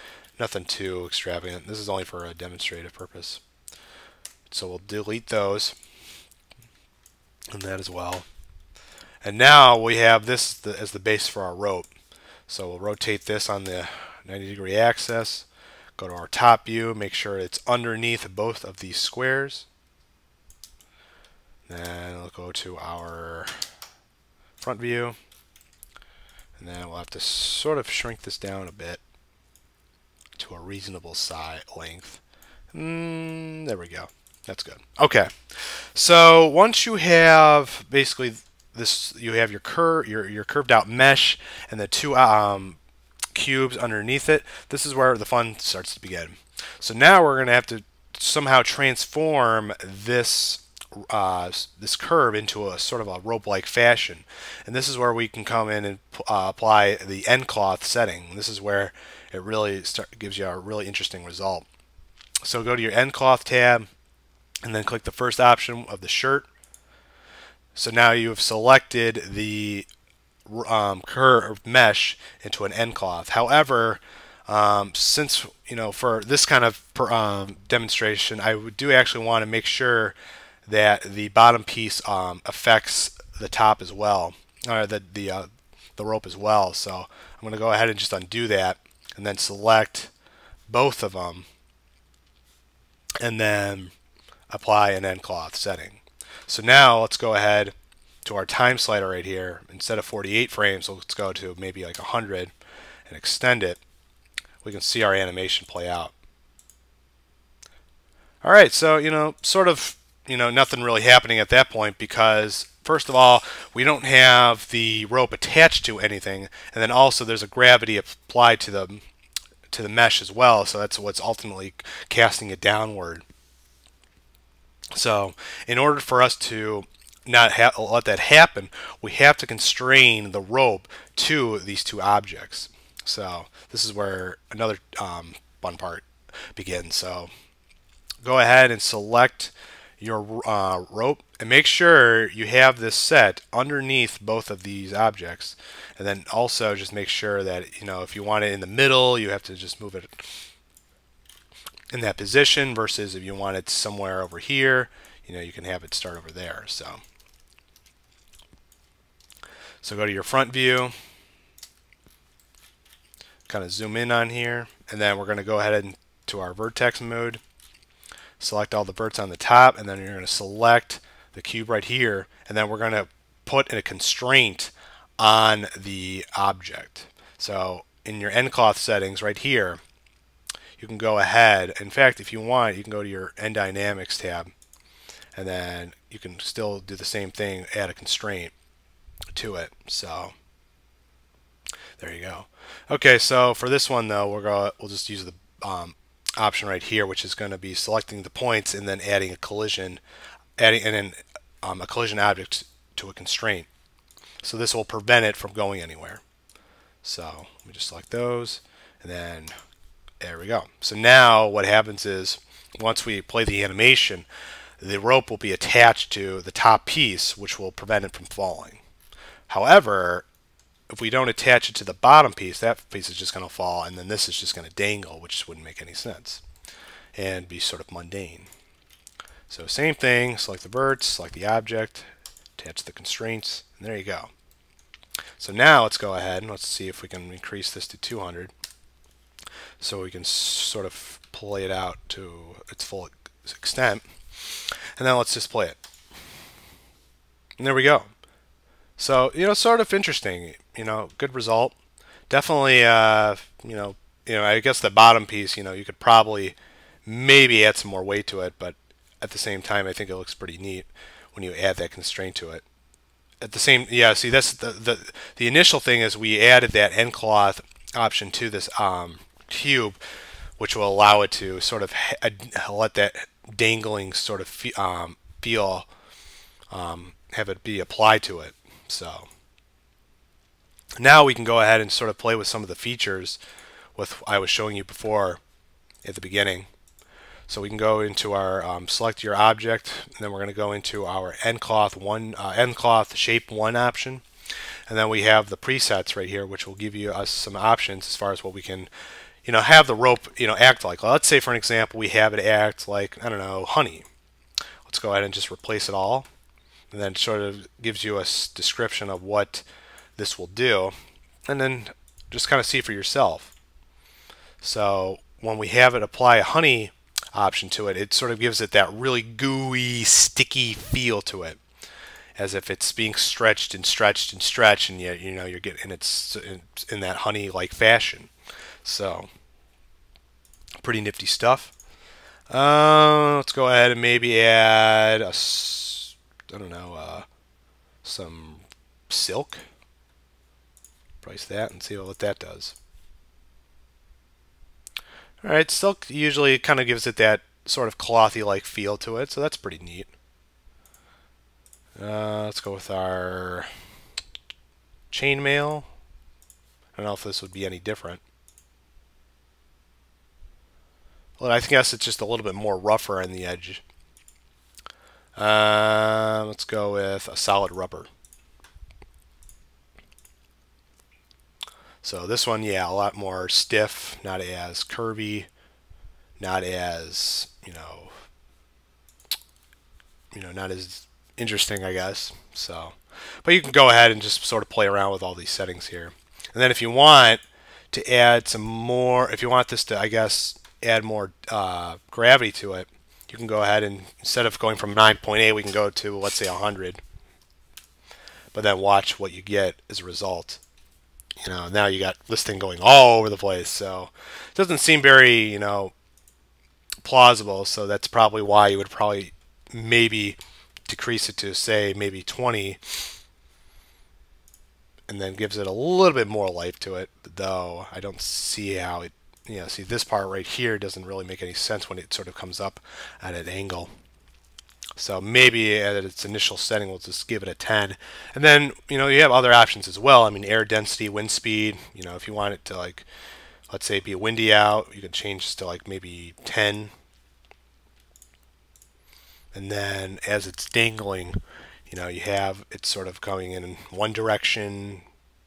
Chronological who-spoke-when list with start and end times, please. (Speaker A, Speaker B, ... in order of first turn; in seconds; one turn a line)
Speaker A: 0.4-3.4
Speaker A: 4.5-5.8
Speaker A: 7.5-8.3
Speaker A: 9.2-11.9
Speaker A: 12.5-19.7
Speaker A: 21.7-23.6
Speaker A: 24.6-25.2
Speaker A: 26.6-29.0
Speaker A: 30.4-32.2
Speaker A: 32.7-42.8
Speaker A: 43.3-61.7
Speaker A: 62.4-63.9
Speaker A: 64.6-66.5
Speaker A: 67.8-69.9
Speaker A: 70.5-80.2
Speaker A: 80.7-90.1
Speaker A: 90.7-91.5
Speaker A: 93.2-93.9
Speaker A: 94.5-102.5
Speaker A: 103.1-103.8
Speaker A: 104.6-106.1
Speaker A: 108.4-119.0
Speaker A: 119.7-123.2
Speaker A: 125.0-137.3
Speaker A: 138.2-150.3
Speaker A: 151.9-157.0
Speaker A: 159.8-160.9
Speaker A: 163.5-167.4
Speaker A: 168.4-179.8
Speaker A: 180.8-184.5
Speaker A: 185.3-188.5
Speaker A: 189.3-190.3
Speaker A: 192.0-200.0
Speaker A: 200.6-203.7
Speaker A: 204.4-206.2
Speaker A: 207.0-209.6
Speaker A: 210.2-214.3
Speaker A: 214.8-218.8
Speaker A: 219.5-220.3
Speaker A: 220.9-226.4
Speaker A: 227.2-228.5
Speaker A: 229.5-234.3
Speaker A: 235.4-238.5
Speaker A: 239.8-244.1
Speaker A: 245.0-245.8
Speaker A: 247.6-248.1
Speaker A: 249.0-251.8
Speaker A: 252.3-262.6
Speaker A: 263.4-270.0
Speaker A: 270.6-275.9
Speaker A: 276.7-279.3
Speaker A: 281.0-283.4
Speaker A: 284.0-285.4
Speaker A: 286.0-286.7
Speaker A: 287.5-294.2
Speaker A: 294.9-298.9
Speaker A: 299.4-304.1
Speaker A: 304.9-306.3
Speaker A: 306.9-309.6
Speaker A: 310.2-310.9
Speaker A: 311.5-313.5
Speaker A: 314.6-321.6
Speaker A: 322.4-328.3
Speaker A: 328.8-329.3
Speaker A: 330.8-331.7
Speaker A: 332.5-337.3
Speaker A: 338.0-339.6
Speaker A: 341.2-342.8
Speaker A: 345.4-350.1
Speaker A: 352.0-353.7
Speaker A: 355.1-355.9
Speaker A: 356.9-358.2
Speaker A: 361.4-363.8
Speaker A: 365.4-368.1
Speaker A: 372.0-375.5
Speaker A: 376.4-378.1
Speaker A: 380.3-397.0
Speaker A: 398.5-400.6
Speaker A: 401.4-405.9
Speaker A: 407.0-413.1
Speaker A: 415.1-423.9
Speaker A: 425.0-433.1
Speaker A: 433.7-436.9
Speaker A: 439.5-445.0